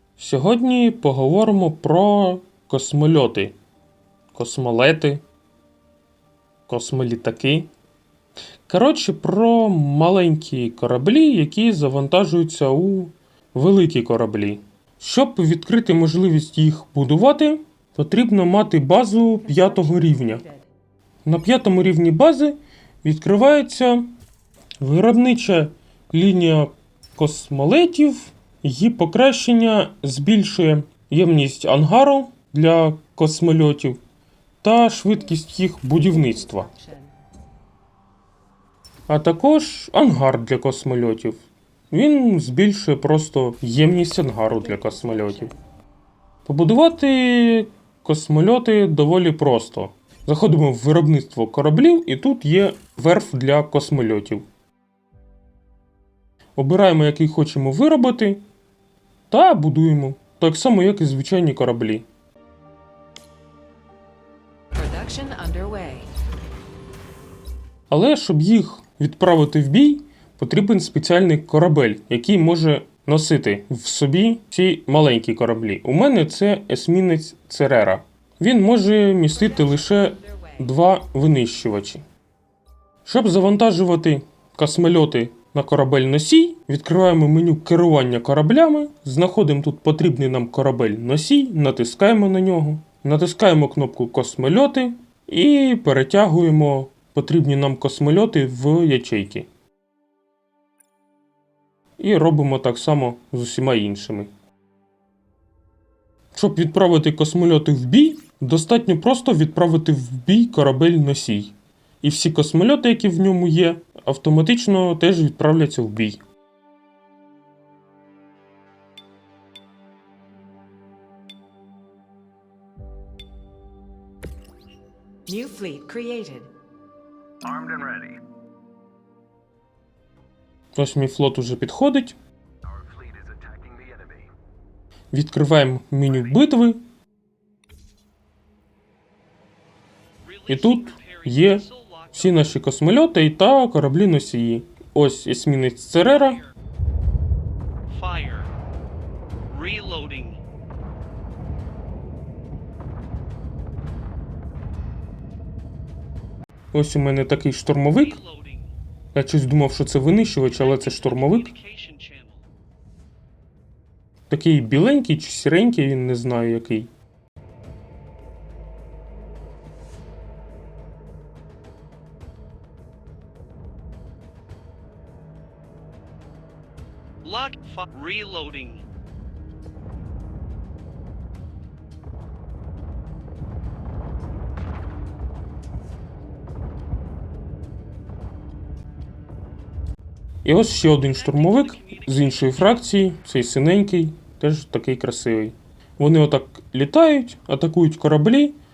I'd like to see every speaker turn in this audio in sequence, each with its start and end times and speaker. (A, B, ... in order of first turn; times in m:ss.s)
0:00.2-0:03.5 A
0:04.3-0:05.2 A
0:06.7-0:07.7 A
0:08.7-0:20.4 A
0:19.4-0:20.7 B
0:21.2-0:24.1 A
0:24.8-0:34.0 A
0:34.6-0:36.7 A
0:36.1-0:37.2 B
0:39.1-0:41.4 A
0:41.9-0:45.5 A
0:44.6-0:45.6 B
0:46.4-0:54.4 A
0:56.6-0:58.4 A
0:59.3-1:02.0 A
1:04.7-1:06.1 B
1:07.9-1:22.0 A
1:19.3-1:20.7 B
1:23.0-1:39.5 A
1:42.0-1:44.3 A
1:46.3-1:56.2 A
2:05.3-2:06.5 B
2:07.4-2:08.2 C
2:10.8-2:12.2 A
2:12.7-2:14.3 C
2:15.1-2:16.8 A
2:20.2-2:22.5 D
2:20.5-2:26.4 A
2:27.9-2:28.5 D
2:29.5-2:30.4 D
2:36.7-2:38.2 A
2:38.0-2:38.7 D
2:39.1-2:41.5 A
2:40.5-2:42.4 D
2:44.3-2:46.9 A
2:57.2-2:58.8 D
3:10.4-3:18.6 A
3:11.2-3:12.6 D